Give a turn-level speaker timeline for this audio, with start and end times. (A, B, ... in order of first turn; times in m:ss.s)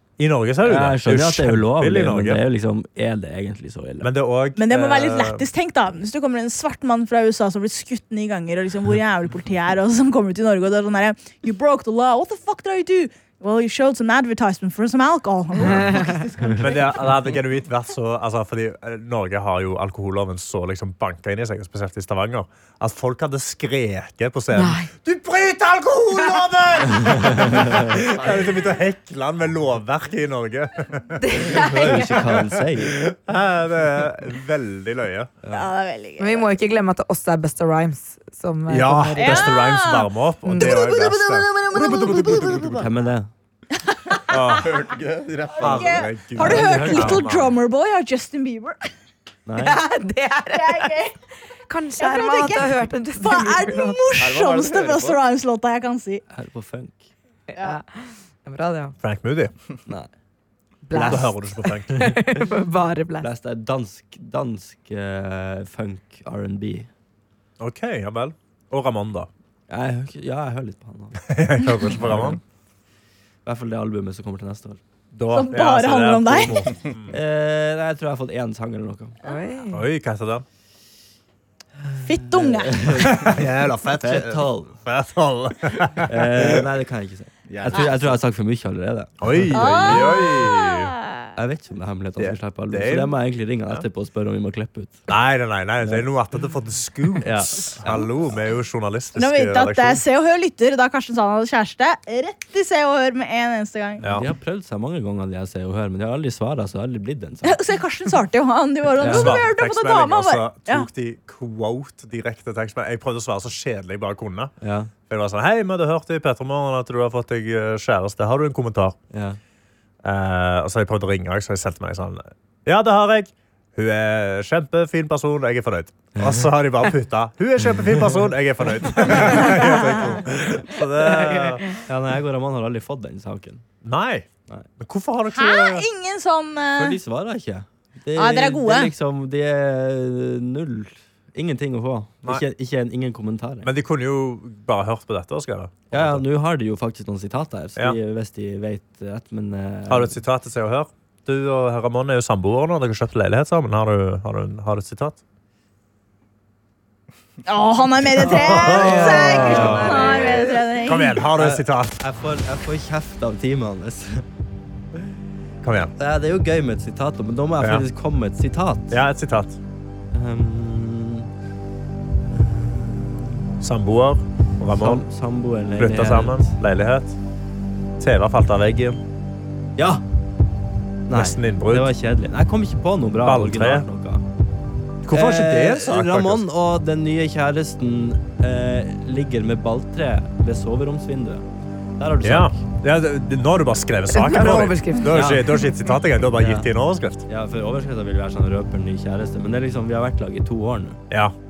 0:00.2-0:02.4 A
0:00.6-0:04.1 B
0:04.0-0:05.5 A
0:04.6-0:17.2 C
0:16.6-0:35.3 A
0:24.5-0:24.9 D
0:27.4-0:27.9 B
0:28.0-0:28.5 E
0:31.2-0:32.1 D
0:31.4-0:33.0 B
0:35.5-0:36.5 C
0:36.2-0:39.5 D
0:38.7-0:42.9 A
0:39.2-0:42.8 C
0:40.6-0:40.8 D
0:42.6-0:43.3 B
0:43.8-0:44.4 C
0:44.3-0:44.8 A
0:44.5-0:46.1 E
0:45.6-0:48.9 C
0:45.6-0:47.5 A
0:46.4-0:47.3 B
0:49.5-0:49.8 B
0:49.6-0:50.9 D
0:50.5-0:51.1 C
0:51.7-0:54.0 D
0:52.0-0:56.2 C
0:54.2-0:55.2 E
0:56.3-0:57.1 B
0:57.5-0:58.9 D
0:59.0-0:59.5 A
1:00.9-1:03.3 D
1:00.9-1:01.3 B
1:01.1-1:02.0 A
1:01.9-1:02.4 B
1:03.2-1:06.9 B
1:07.6-1:09.3 A
1:09.7-1:11.3 B
1:11.3-1:12.4 A
1:11.9-1:12.4 B
1:13.4-1:14.8 B
1:15.1-1:17.2 A
1:15.3-1:16.7 C
1:17.1-1:19.2 B
1:19.2-1:19.8 D
1:19.7-1:20.4 A
1:21.9-1:23.4 B
1:22.0-1:23.1 C
1:23.0-1:26.6 A
1:24.0-1:24.8 B
1:26.1-1:29.9 B
1:27.5-1:28.2 E
1:29.2-1:31.0 A
1:29.5-1:31.3 C
1:31.4-1:35.0 B
1:32.2-1:33.2 A
1:35.1-1:40.0 A
1:35.8-1:36.1 B
1:37.2-1:37.9 B
1:39.2-1:44.0 C
1:44.0-1:44.3 A
1:44.1-1:47.6 B
1:47.4-1:50.9 C
1:49.0-1:49.4 B
1:49.0-1:54.5 A
1:54.6-1:54.9 B
1:55.1-1:59.0 A
1:59.1-1:59.4 B
2:00.0-2:11.7 A
2:06.2-2:06.5 B
2:09.0-2:09.5 B
2:11.8-2:13.6 B
2:13.8-2:14.3 A
2:14.8-2:15.9 A
2:15.3-2:17.0 C
2:16.8-2:23.7 B
2:18.2-2:18.9 C
2:23.6-2:26.2 A
2:25.9-2:30.2 B
2:29.9-2:35.2 A
2:37.5-2:41.2 C
2:38.2-2:40.2 A
2:38.2-2:40.5 B
2:40.8-2:42.0 A
2:41.4-2:44.2 B
2:45.6-2:45.9 A
2:46.0-2:49.0 B
2:47.6-2:47.9 A
2:48.9-2:49.6 A
2:50.1-2:51.3 B
2:52.4-2:53.2 B
2:53.6-2:55.1 A
2:54.8-2:56.5 B
2:55.8-2:57.2 A
2:58.0-2:59.0 A
2:59.8-3:00.0 B
3:01.1-3:04.2 B
3:01.1-3:01.9 A
3:03.2-3:03.9 A
3:05.0-3:06.5 A
3:05.1-3:11.5 B
3:12.0-3:12.6 B
3:12.2-3:17.2 A
3:14.1-3:15.2 D
3:15.1-3:15.7 B
3:16.4-3:16.7 B
3:17.3-3:21.0 B